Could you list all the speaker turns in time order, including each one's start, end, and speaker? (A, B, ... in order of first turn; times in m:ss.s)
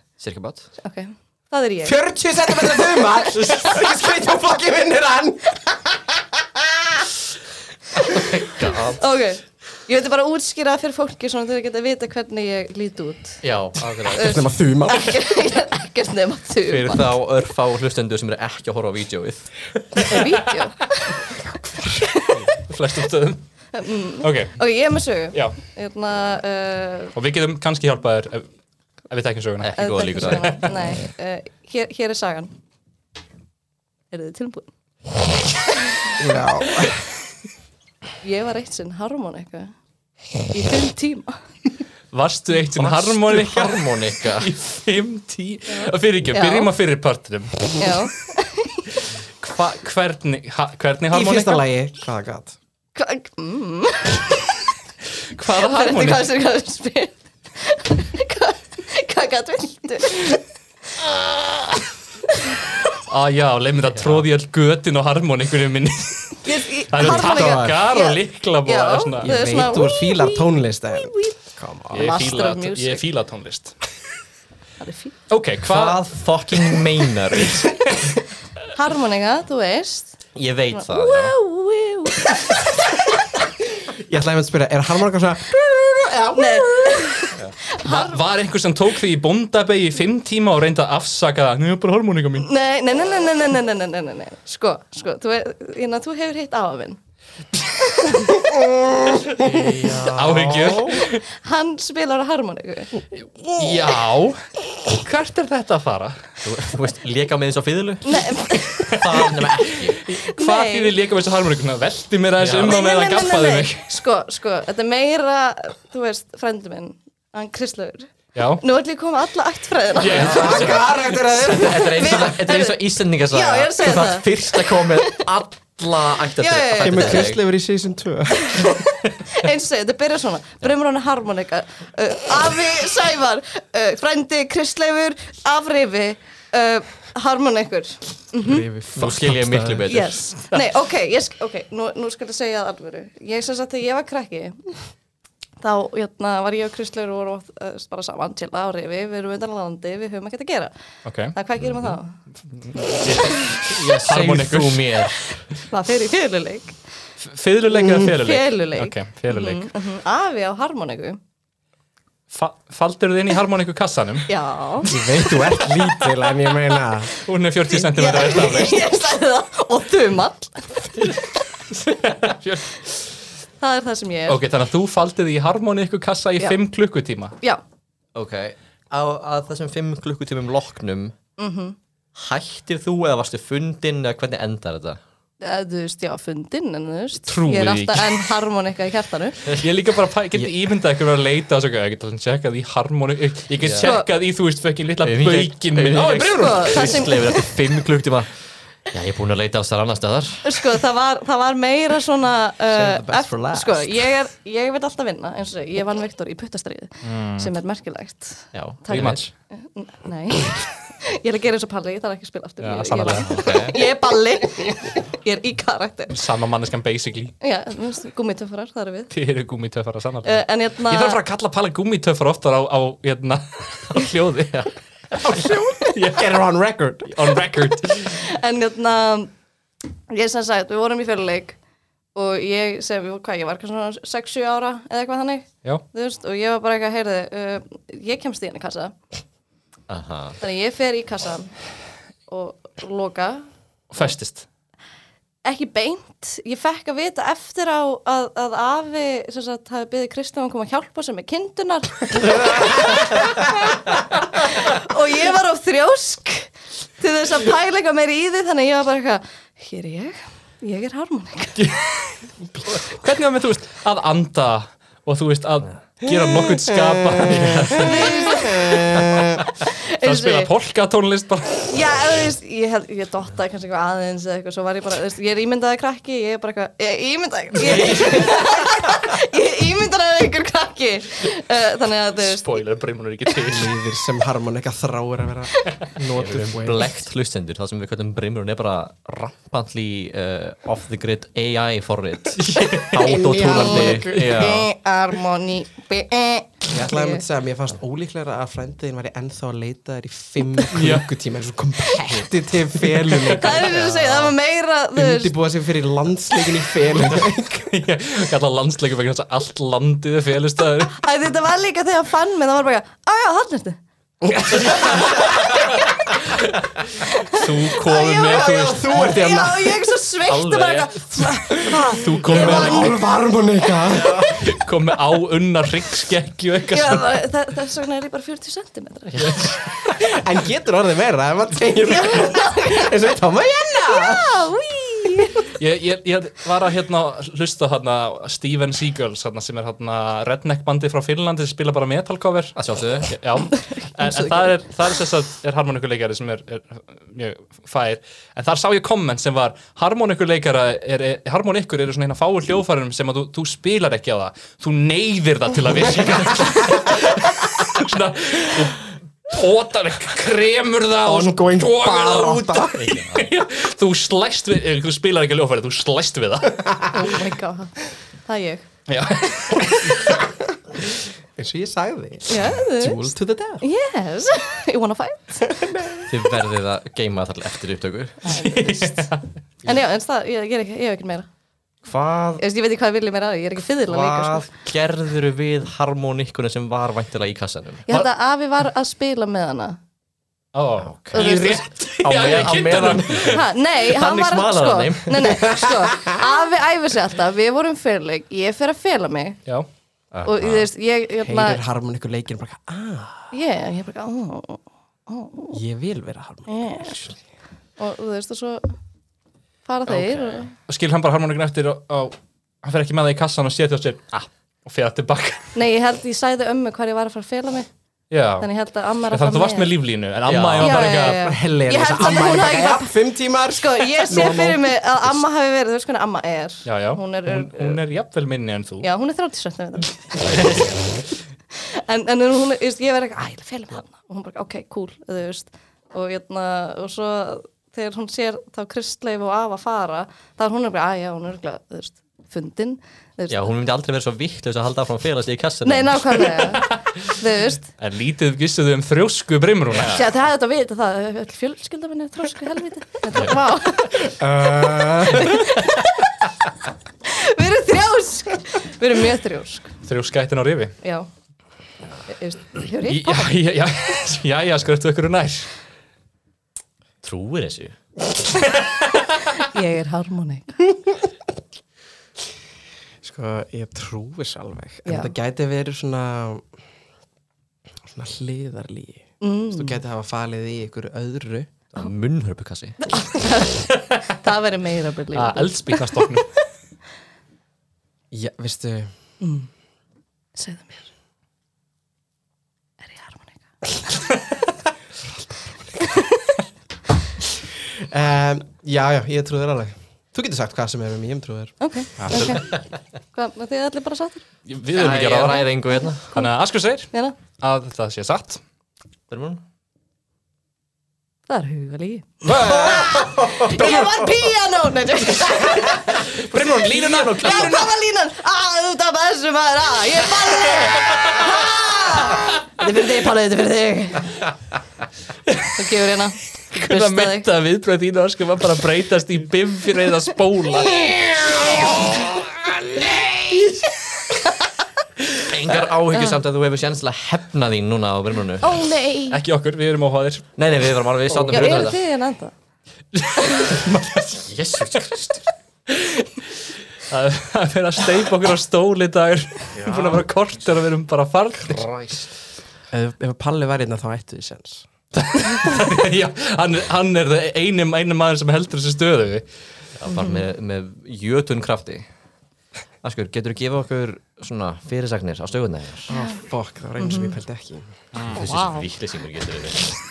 0:00.2-0:00.7 A
0:00.8-0:02.0 B
0:01.8-0:07.0 C
0:03.4-0:03.7 A
0:08.0-0:09.0 A
0:09.0-0:13.4 B
0:13.4-0:14.4 A
0:14.1-0:17.1 B
0:14.2-0:15.3 C
0:16.7-0:20.0 A
0:20.0-0:21.2 B
0:21.8-0:22.4 B
0:22.6-0:23.4 D
0:23.7-0:27.1 B
0:24.2-0:24.6 D
0:27.2-0:28.5 D
0:29.1-0:30.7 D
0:29.6-0:30.7 A
0:29.8-0:32.5 B
0:34.1-0:34.7 B
0:36.2-0:37.0 C
0:38.2-0:39.7 B
0:40.4-0:41.4 B
0:42.1-0:48.1 D
0:42.8-0:44.5 A
0:45.7-0:46.7 B
0:47.8-0:48.9 B
0:49.4-0:51.6 D
0:51.1-0:52.6 C
0:53.0-0:54.5 B
0:55.3-0:56.3 D
0:55.6-1:00.4 B
1:03.1-1:09.4 D
1:04.0-1:04.3 A
1:06.4-1:11.4 B
1:07.0-1:07.8 C
1:09.2-1:12.4 C
1:11.9-1:13.8 D
1:11.9-1:13.0 B
1:14.8-1:15.2 B
1:15.3-1:16.0 D
1:15.6-1:17.7 A
1:17.4-1:17.7 D
1:18.7-1:20.2 B
1:20.4-1:21.4 A
1:20.7-1:22.7 B
1:23.9-1:27.3 C
1:26.4-1:28.2 B
1:27.4-1:32.5 D
1:32.4-1:37.0 B
1:37.9-1:38.3 B
1:38.4-1:38.9 C
1:39.5-1:40.9 C
1:39.5-1:41.2 D
1:39.5-1:40.5 A
1:41.1-1:43.1 B
1:43.5-1:46.2 D
1:46.4-1:50.0 A
1:48.0-1:49.0 B
1:48.9-1:49.3 D
1:50.0-1:53.9 D
1:50.3-1:50.9 B
1:52.4-1:52.8 A
1:52.6-2:00.6 B
1:58.3-1:58.6 D
2:00.0-2:01.1 D
2:00.1-2:07.4 A
2:00.2-2:02.3 C
2:01.7-2:05.3 B
2:06.4-2:07.3 B
2:06.8-2:08.8 C
2:08.5-2:18.7 B
2:18.4-2:20.1 C
2:19.0-2:20.3 A
2:19.9-2:24.8 B
2:25.6-2:30.7 B
2:31.0-2:31.4 D
2:31.3-2:32.2 B
2:32.5-2:35.1 D
2:33.5-2:35.3 A
2:35.7-2:36.8 B
2:37.2-2:39.7 D
2:37.7-2:38.1 C
2:38.0-2:41.2 B
2:42.3-2:44.3 D
2:44.3-2:45.0 B
2:44.8-2:47.2 C
2:47.2-2:48.9 D
2:47.7-2:51.2 B
2:51.7-2:52.8 D
2:53.6-2:54.4 B
2:54.3-2:57.4 D
2:58.2-3:01.2 A
3:01.4-3:01.8 B
3:02.2-3:05.0 A
3:05.4-3:09.4 B
3:07.3-3:08.2 D
3:09.6-3:17.0 D
3:13.6-3:13.9 A
3:13.8-3:14.1 B
3:15.0-3:18.3 A
3:16.3-3:17.5 B
3:18.9-3:20.6 A
3:20.4-3:36.2 B
3:22.7-3:24.0 C
3:27.0-3:27.5 D
3:28.5-3:29.3 A
3:28.9-3:29.3 D
3:32.6-3:33.7 D
3:33.3-3:33.8 A
3:36.1-3:37.4 D
3:37.4-3:39.1 B
3:39.1-3:46.3 D
3:40.2-3:41.2 B
3:45.2-3:47.2 C
3:47.1-3:48.2 D
3:48.0-3:49.3 B
3:50.1-3:51.6 B
3:52.2-3:59.0 B
3:59.9-4:00.4 A
4:00.4-4:01.5 B
4:02.3-4:03.5 B
4:03.9-4:04.5 D
4:05.4-4:21.7 B
4:21.6-4:21.9 D
4:22.7-4:29.4 D
4:26.1-4:29.4 C
4:27.7-4:30.5 B
4:30.0-4:31.8 D
4:31.7-4:42.5 B
4:37.6-4:38.8 A
4:42.2-4:43.8 D
4:43.5-4:46.9 C
4:46.2-4:54.7 A
4:52.4-4:53.2 D
4:52.6-4:54.4 C
4:53.4-4:57.2 B
4:56.7-5:03.9 C
5:00.7-5:01.1 D
5:03.1-5:04.0 D
5:03.3-5:05.3 B
5:05.0-5:07.8 C
5:07.7-5:11.0 D
5:10.9-5:13.8 B
5:14.2-5:15.6 C
5:17.2-5:19.0 D
5:17.2-5:23.0 B
5:17.8-5:19.9 C
5:20.3-5:21.0 A
5:21.5-5:23.0 D
5:22.3-5:24.5 C
5:24.3-5:27.1 D
5:26.7-5:29.5 B
5:29.2-5:29.8 D
5:29.9-5:34.3 C
5:31.9-5:32.9 B
5:33.9-5:35.5 B
5:35.5-5:42.6 D
5:42.6-5:43.2 A
5:43.1-6:06.9 D
5:43.7-5:44.5 B
5:56.4-5:56.8 C
6:01.0-6:02.9 C
6:02.8-6:03.2 A
6:06.9-6:08.7 B
6:08.9-6:10.1 D
6:11.4-6:13.6 C
6:12.3-6:15.5 B
6:15.5-6:16.1 C
6:16.1-6:18.3 A
6:18.2-6:19.0 B
6:18.3-6:19.3 D
6:19.6-6:21.3 B
6:21.8-6:22.4 A
6:22.4-6:24.5 B
6:23.9-6:27.9 A
6:27.9-6:29.8 B
6:30.5-6:33.4 D
6:31.1-6:31.7 B
6:32.0-6:35.6 A
6:33.2-6:39.4 B
6:35.3-6:36.2 C
6:40.1-6:40.7 A
6:40.2-6:41.6 B
6:41.2-6:43.3 C
6:43.3-6:45.6 B
6:45.5-6:47.2 C
6:46.5-6:47.0 B
6:47.8-6:48.8 B
6:49.7-6:50.5 B
6:50.6-6:55.5 D
6:55.6-6:57.7 B
6:58.1-6:58.5 D
6:58.4-6:59.8 B
6:59.1-7:01.2 D
7:00.3-7:00.9 A
7:00.6-7:03.0 B
7:01.0-7:04.7 C
7:03.5-7:07.8 B
7:06.7-7:08.9 D
7:08.8-7:10.4 B
7:11.5-7:23.5 B
7:23.3-7:26.5 A
7:25.6-7:27.7 B
7:27.8-7:30.0 D
7:29.7-7:30.0 A
7:29.8-7:34.2 B
7:34.0-7:35.5 C
7:35.0-7:36.1 B
7:37.0-7:39.8 B
7:39.8-7:40.8 D
7:40.8-7:41.1 B
7:42.1-7:43.4 B
7:42.9-7:45.5 D
7:47.0-7:47.8 A
7:49.4-7:50.7 B
7:53.0-7:56.5 C
7:54.9-7:55.1 B
7:57.9-8:01.5 C
7:59.2-7:59.8 B
8:01.7-8:02.8 A
8:02.9-8:06.0 B
8:05.1-8:06.3 D
8:08.1-8:08.9 C
8:09.2-8:09.5 B
8:10.4-8:10.8 B
8:12.8-8:13.4 B
8:17.6-8:22.4 C
8:21.6-8:22.6 B
8:23.1-8:24.2 B
8:24.5-8:25.5 D
8:24.7-8:26.1 A
8:25.9-8:26.3 B
8:26.1-8:28.4 D
8:29.1-8:29.4 A
8:31.3-8:36.1 B
8:32.2-8:33.8 D
8:32.5-8:34.1 C
8:35.9-8:37.7 D
8:36.7-8:44.3 B
8:40.9-8:41.4 D
8:45.6-8:47.3 B
8:46.5-8:52.2 D
8:55.2-8:58.7 A
8:58.4-8:59.2 B
8:59.1-9:00.3 D
9:00.4-9:01.8 A
9:01.2-9:01.6 D
9:01.3-9:02.3 B
9:02.9-9:04.3 D
9:04.2-9:05.2 A
9:05.7-9:06.3 D
9:06.9-9:11.7 D
9:09.6-9:10.0 A
9:11.5-9:12.1 A
9:12.7-9:14.7 C
9:15.0-9:19.2 D
9:19.8-9:21.9 A
9:19.9-9:20.3 B
9:22.8-9:25.9 A
9:25.9-9:27.7 C
9:26.8-9:27.2 B
9:28.0-9:28.3 D
9:28.1-9:29.7 A
9:28.2-9:28.6 B